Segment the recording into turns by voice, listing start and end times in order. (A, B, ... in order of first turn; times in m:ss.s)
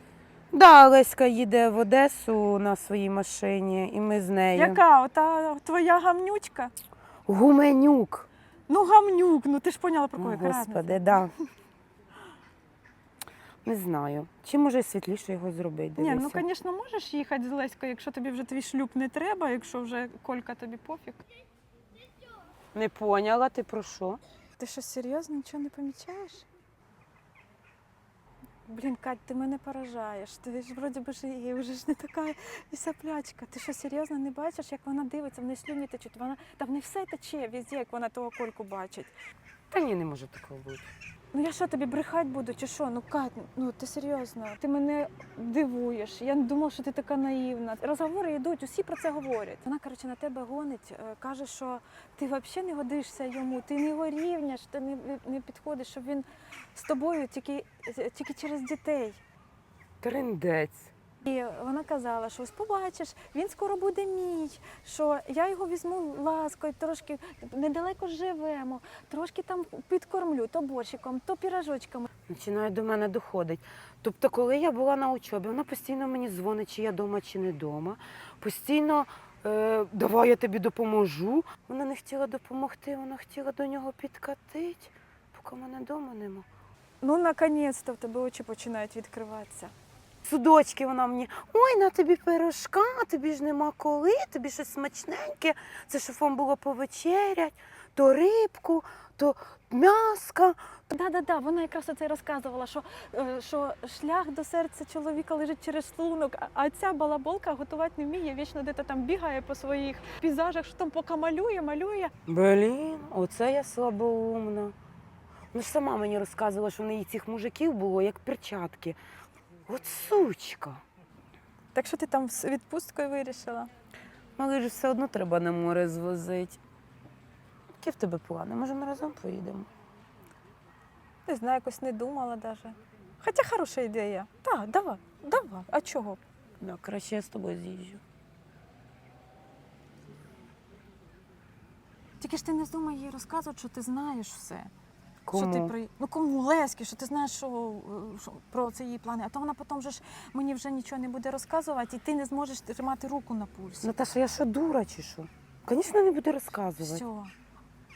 0:00.5-0:04.8 A
0:04.6-0:06.7 B
0:07.3-0:08.3 A
0:08.7-0:11.4 B
0:10.2-0:11.3 A
0:13.6-0:16.4 A
0:16.0-0:21.2 B
0:22.7-0:24.2 A
0:24.6-0:26.5 B
0:28.7-0:39.1 B
0:39.7-0:40.9 A
0:41.3-0:59.2 B
1:00.0-1:00.9 A
1:01.2-1:12.1 B
1:12.3-1:26.5 A
1:27.0-1:29.7 B
1:30.2-1:40.6 A
1:40.9-1:52.1 B
1:52.3-1:54.7 A
1:55.5-1:59.0 A
1:59.7-2:00.8 A
2:01.8-2:03.7 B
2:04.4-2:06.6 A
2:07.8-2:09.7 A
2:11.3-2:16.2 B
2:16.6-2:18.0 A
2:22.2-2:24.7 B
2:25.2-2:25.7 A
2:25.3-2:34.0 B
2:33.8-2:37.0 A
2:36.8-2:37.3 B